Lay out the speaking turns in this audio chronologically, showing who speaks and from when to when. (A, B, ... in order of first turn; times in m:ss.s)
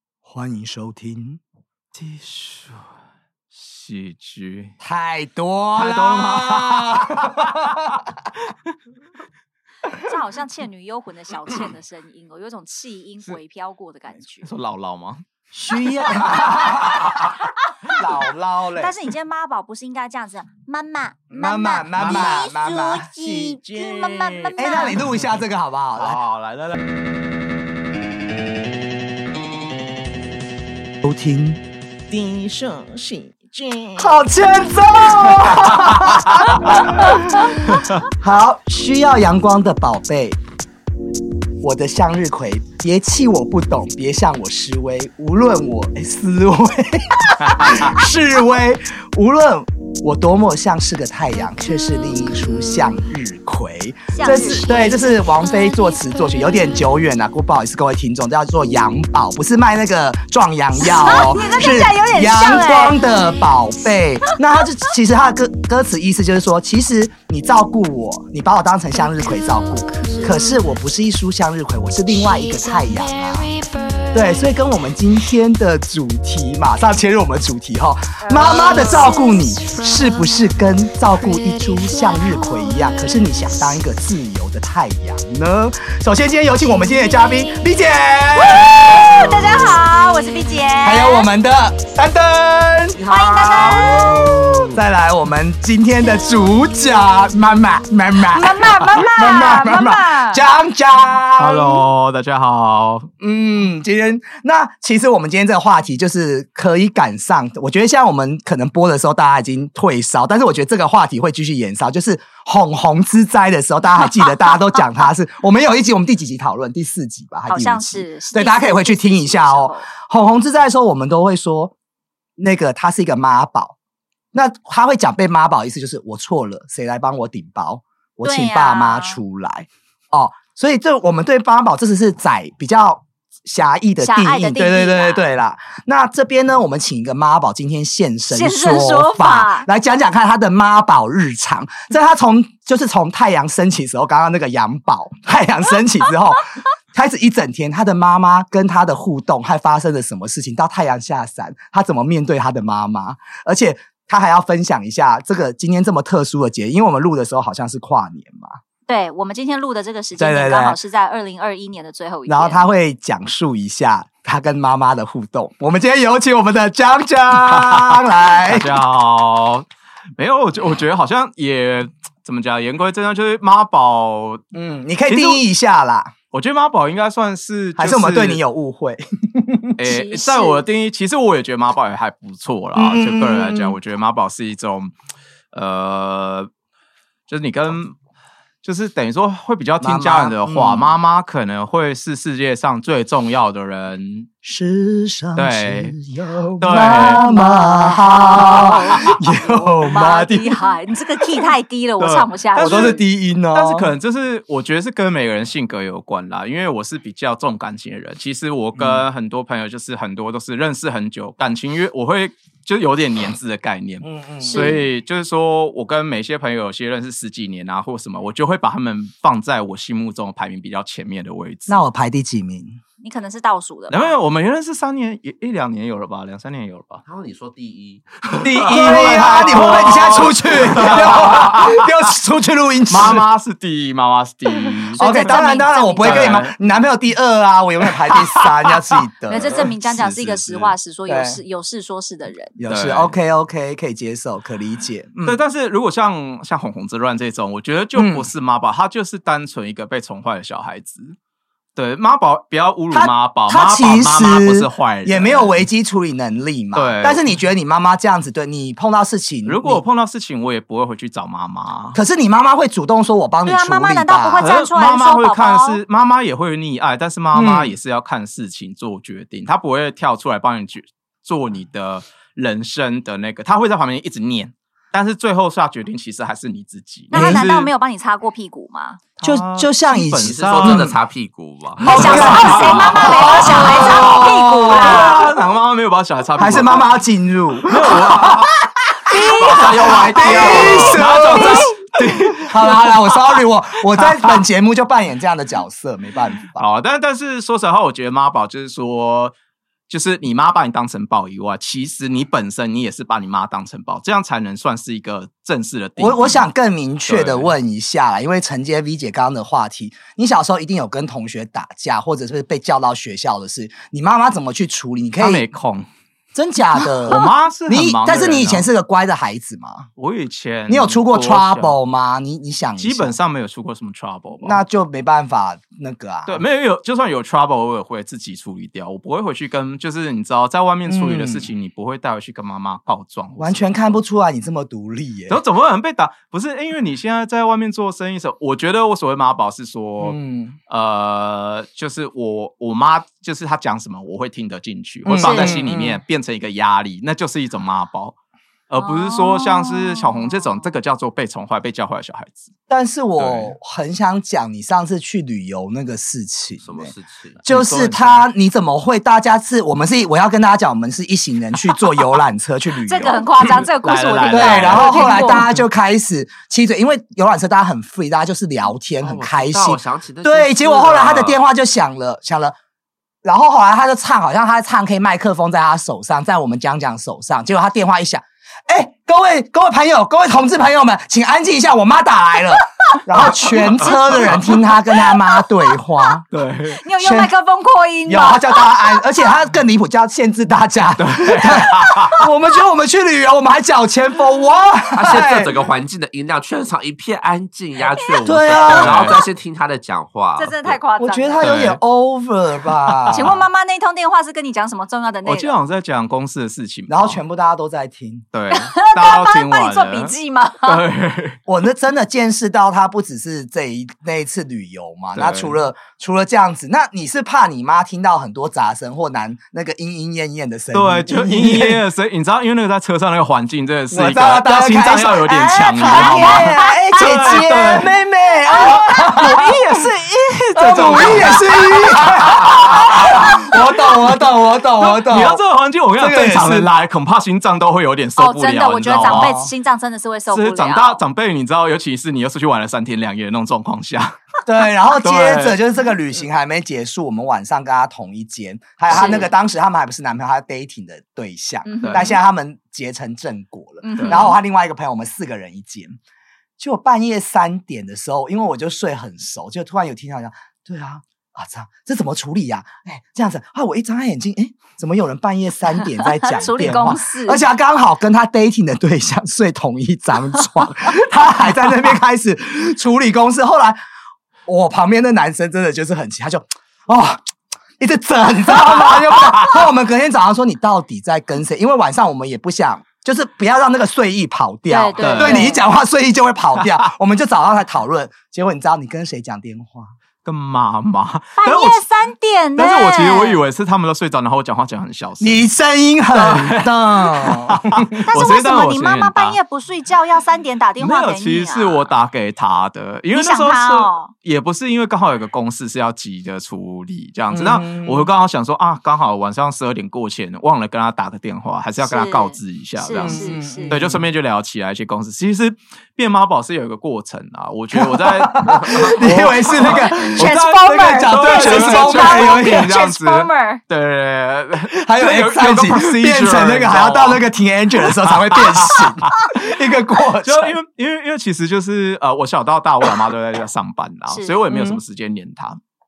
0:00.2-0:01.4 A
0:01.9-0:02.9 B
0:03.5-0:04.8 B
0:04.8-0:08.0 A
0:05.7-0:07.9 B
0:10.0-0:14.5 C
0:14.4-0:15.2 B
0:15.5-0:17.3 A
0:16.1-0:17.3 B
0:17.9-0:19.0 A
0:18.8-0:25.0 C
0:21.3-0:26.2 A
0:22.0-0:22.5 B
0:26.0-0:26.8 B
0:31.0-0:40.4 A
0:35.7-0:36.8 B
0:37.6-0:38.0 B
0:41.6-1:13.5 A
0:47.4-0:47.9 B
0:54.1-0:55.0 C
1:00.8-1:03.0 C
1:10.0-1:10.4 C
1:14.1-1:29.8 A
1:18.2-1:19.1 C
1:28.4-1:31.2 C
1:30.8-1:33.0 A
1:33.0-1:34.7 C
1:33.1-1:34.2 D
1:34.7-1:41.8 A
1:38.2-1:40.4 C
1:41.4-1:43.1 B
1:43.2-2:01.7 A
1:57.5-1:59.9 C
2:02.4-2:03.8 A
2:04.3-2:38.6 A
2:08.2-2:09.2 C
2:14.0-2:15.2 C
2:18.3-2:19.7 C
2:38.9-2:42.6 C
2:40.2-2:40.8 A
2:42.3-2:48.7 A
2:47.4-2:49.6 B
2:50.2-2:54.4 B
2:54.5-2:56.1 A
2:55.1-2:55.4 B
2:56.3-2:58.4 B
2:57.8-2:59.8 A
2:59.8-3:04.9 B
2:59.9-3:00.6 C
3:02.7-3:03.8 A
3:05.5-3:06.5 B
3:07.3-3:08.0 B
3:08.6-3:14.3 B
3:09.8-3:10.9 A
3:14.4-3:20.6 A
3:15.4-3:16.0 B
3:16.6-3:17.2 B
3:16.7-3:23.0 C
3:18.6-3:19.0 B
3:22.0-3:23.0 B
3:22.6-3:23.9 A
3:23.5-3:41.8 B
3:28.8-3:29.0 A
3:34.0-3:34.8 A
3:34.4-3:34.8 C
3:41.7-3:42.8 A
3:43.0-3:44.1 C
3:43.9-3:47.0 B
3:47.0-3:50.3 D
3:48.4-3:51.9 B
3:48.4-3:53.2 A
3:52.9-3:55.3 B
3:54.9-4:00.1 A
3:55.0-3:56.5 C
3:56.0-3:56.5 B
3:59.3-4:02.5 C
3:59.3-4:00.7 B
4:01.1-4:01.4 A
4:02.6-4:05.4 A
4:02.7-4:03.1 B
4:05.2-4:11.2 B
4:07.9-4:08.3 A
4:11.7-4:15.6 B
4:12.9-4:19.8 A
4:16.7-4:17.2 B
4:19.4-4:22.0 B
4:21.9-4:24.5 A
4:23.4-4:25.8 C
4:24.4-4:37.7 B
4:27.3-4:27.7 A
4:37.1-4:39.0 C
4:37.1-4:37.5 A
4:39.2-4:40.9 B
4:39.2-4:41.0 A
4:40.2-4:43.0 D
4:41.8-4:45.3 A
4:41.8-4:45.2 C
4:41.8-4:47.0 B
4:46.4-4:51.8 A
4:47.6-4:48.5 B
4:49.1-4:51.5 C
4:49.2-4:51.0 D
4:49.5-4:54.4 B
4:52.3-4:56.6 A
4:56.5-4:59.3 B
4:59.9-5:06.5 B
5:06.0-5:15.4 A
5:07.0-5:07.5 B
5:15.2-5:15.9 B
5:16.3-5:19.9 A
5:17.0-5:18.7 B
5:20.0-5:21.8 B
5:20.7-5:23.2 A
5:22.8-5:24.6 B
5:24.4-5:26.4 A
5:26.2-5:34.0 B
5:30.9-5:31.5 A
5:33.4-5:35.4 A
5:35.3-5:48.1 B
5:40.0-5:40.6 A
5:45.0-5:46.0 A
5:45.2-5:45.5 C
5:48.7-5:52.5 B
5:48.8-5:50.7 C
5:52.7-6:03.3 A
5:53.2-5:53.5 B
5:56.6-5:57.4 D
5:57.5-5:58.3 B
6:02.8-6:05.5 C
6:03.8-6:05.6 B
6:04.3-6:12.5 A
6:09.0-6:11.4 D
6:13.2-6:26.2 A
6:23.8-6:24.5 B
6:24.0-6:24.7 C
6:26.3-6:26.8 B
6:26.8-6:29.0 C
6:27.0-6:27.3 A
6:28.1-6:35.5 A
6:31.0-6:32.2 B
6:34.9-6:40.8 D
6:37.8-6:38.3 C
6:38.2-6:39.1 A
6:38.6-6:39.2 B
6:40.4-6:41.6 C
6:41.0-6:43.4 A
6:41.4-6:41.8 B
6:42.8-6:43.4 B
6:43.1-6:45.5 C
6:45.2-6:47.2 B
6:46.9-6:48.2 A
6:48.3-6:51.4 B
6:48.5-6:50.8 C
6:51.5-7:01.8 A
6:55.1-6:55.6 B
7:00.7-7:07.9 B
7:03.9-7:09.3 A
7:05.9-7:07.8 C
7:08.5-7:09.5 C
7:08.6-7:14.2 B
7:10.6-7:15.4 A
7:14.8-7:19.3 B
7:16.0-7:16.7 A
7:18.2-7:21.0 C
7:19.0-7:19.5 A
7:20.3-7:24.3 B
7:24.4-7:36.0 A
7:24.9-7:25.6 B
7:28.9-7:29.3 C
7:31.6-7:32.2 C
7:31.8-7:32.1 B
7:33.8-7:34.4 C
7:34.0-7:34.3 B
7:36.6-7:53.8 A
7:46.0-7:47.4 C
7:54.4-7:57.3 A
7:57.8-8:10.0 A
8:04.7-8:05.6 C
8:05.0-8:05.6 B
8:10.2-8:11.8 B
8:11.4-8:13.4 C
8:12.6-8:15.5 B
8:15.2-8:17.9 A
8:16.1-8:19.4 B
8:18.1-8:21.9 C
8:20.8-8:47.2 B
8:23.1-8:24.1 C
8:27.3-8:28.1 A
8:31.8-8:33.7 C
8:33.0-8:34.0 A
8:37.7-8:42.8 A
8:39.6-8:43.6 C
8:44.7-8:50.6 A
8:47.9-8:49.4 B
8:50.2-8:55.6 B
8:54.1-8:54.4 C
8:54.5-8:54.8 A